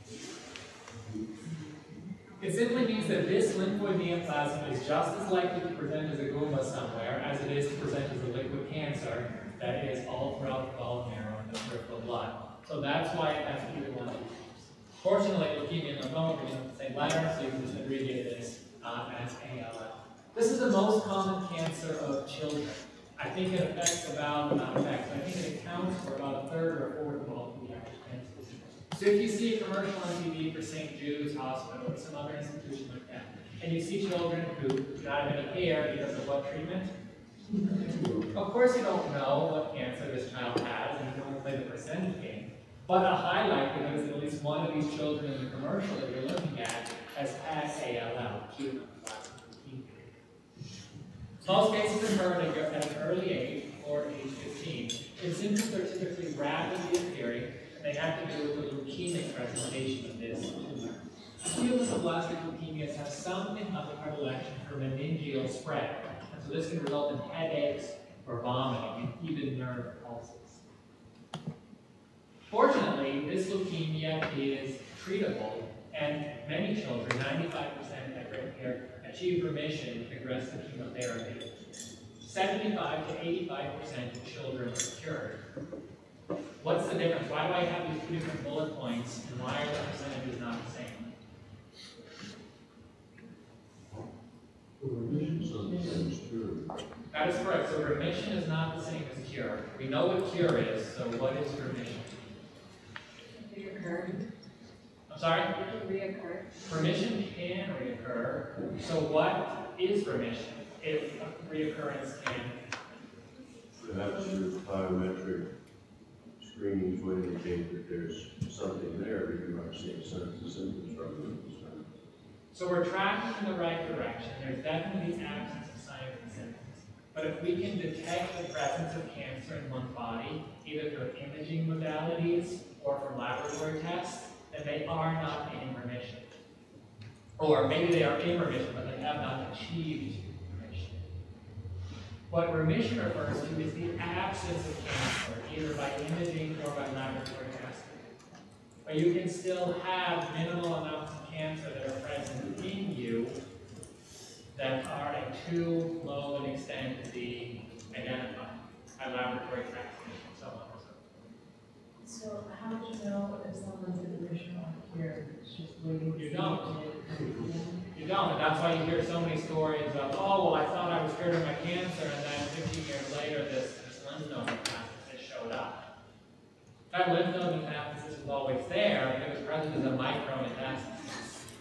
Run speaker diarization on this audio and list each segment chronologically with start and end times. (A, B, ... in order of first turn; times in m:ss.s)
0:02.4-0:36.9 A
0:38.3-0:50.1 A
0:51.4-1:10.6 A
1:12.5-1:21.6 A
1:22.2-1:25.4 A
1:26.6-1:31.1 A
1:34.8-1:36.7 B
1:37.1-1:42.2 A
1:43.4-1:44.2 C
1:45.1-1:45.5 A
1:45.6-1:46.5 C
1:46.6-1:52.7 A
1:53.7-1:55.5 B
1:56.4-2:01.9 B
2:02.5-2:16.3 A
2:17.4-2:21.0 A
2:22.3-2:28.1 A
2:28.8-2:33.4 A
2:34.5-2:41.1 A
2:42.0-2:47.8 C
2:46.2-2:46.9 A
2:47.9-2:55.8 A
2:56.9-3:01.0 A